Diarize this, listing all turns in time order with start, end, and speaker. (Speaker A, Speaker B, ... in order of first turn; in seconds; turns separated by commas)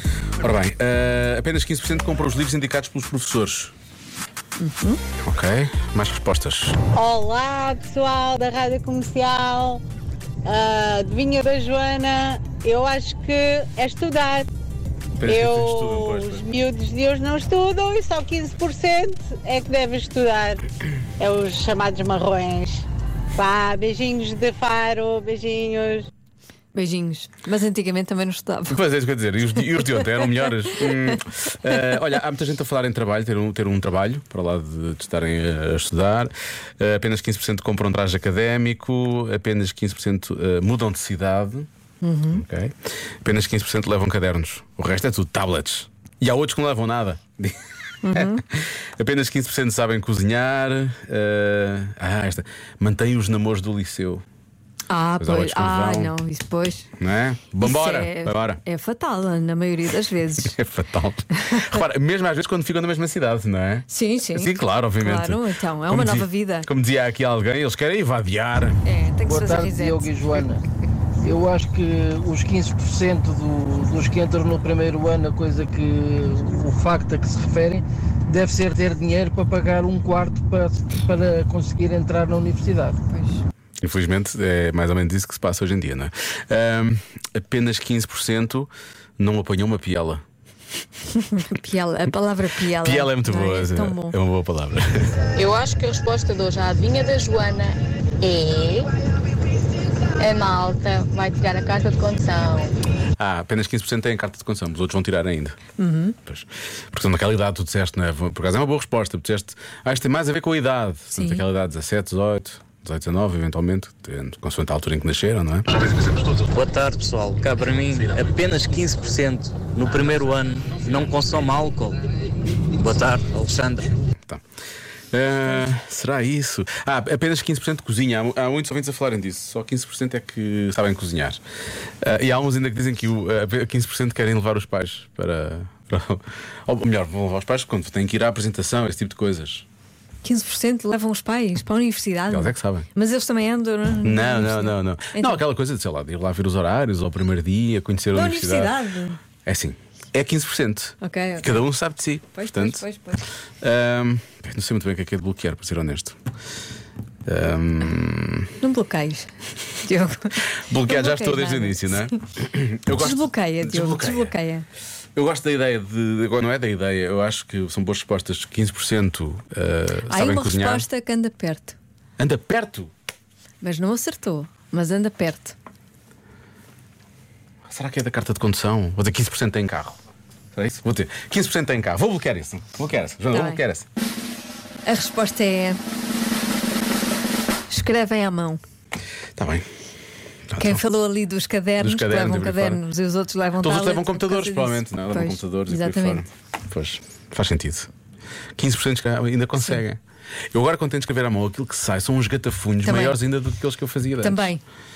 Speaker A: 0.4-3.7, Speaker B: 4.6-5.0, Speaker A: 5.2-6.8, Speaker C: 6.9-9.8, Speaker C: 10.4-14.5, Speaker A: 15.2-16.5, Speaker C: 15.2-20.6, Speaker C: 21.2-26.1, Speaker B: 26.7-28.8, Speaker A: 28.7-41.7, Speaker B: 42.0-42.4, Speaker A: 42.3-47.6, Speaker B: 48.0-48.4, Speaker A: 48.1-54.2, Speaker B: 54.9-56.9, Speaker A: 55.2-56.1, Speaker A: 57.0-58.6, Speaker B: 57.6-60.5, Speaker A: 60.5-68.8, Speaker B: 61.4-61.7, Speaker B: 63.9-66.7, Speaker B: 68.8-70.1, Speaker D: 69.2-70.6, Speaker D: 71.2-83.0, Speaker B: 83.1-83.4, Speaker A: 83.8-90.2, Speaker B: 91.2-94.1, Speaker A: 92.8-95.1, Speaker E: 95.4-98.9, Speaker E: 100.2-102.8, Speaker A: 103.2-105.6, Speaker B: 105.8-106.2, Speaker A: 106.2-115.7, Speaker B: 111.1-111.4, Speaker F: 115.9-122.0, Speaker F: 122.8-123.9, Speaker A: 125.1-131.4, Speaker A: 132.0-139.7, Speaker B: 140.2-145.4, Speaker A: 142.3-142.9, Speaker A: 144.0-148.8, Speaker B: 148.1-149.2, Speaker A: 149.4-152.8, Speaker B: 151.0-151.6, Speaker B: 152.3-153.3, Speaker A: 153.6-156.2, Speaker A: 157.2-158.5, Speaker B: 158.6-162.1, Speaker A: 160.7-164.3, Speaker B: 163.0-164.7, Speaker A: 165.2-170.8, Speaker B: 170.1-171.8, Speaker A: 172.2-172.9, Speaker B: 173.6-175.5, Speaker A: 177.7-180.0, Speaker A: 180.5-183.8, Speaker B: 183.3-183.6, Speaker B: 184.8-185.8, Speaker B: 187.7-188.6, Speaker A: 189.3-189.7, Speaker A: 190.5-190.8, Speaker B: 190.6-196.2, Speaker A: 191.8-192.8, Speaker A: 193.6-197.9, Speaker A: 198.6-200.0, Speaker A: 200.5-204.5, Speaker B: 202.8-203.2, Speaker B: 204.2-204.6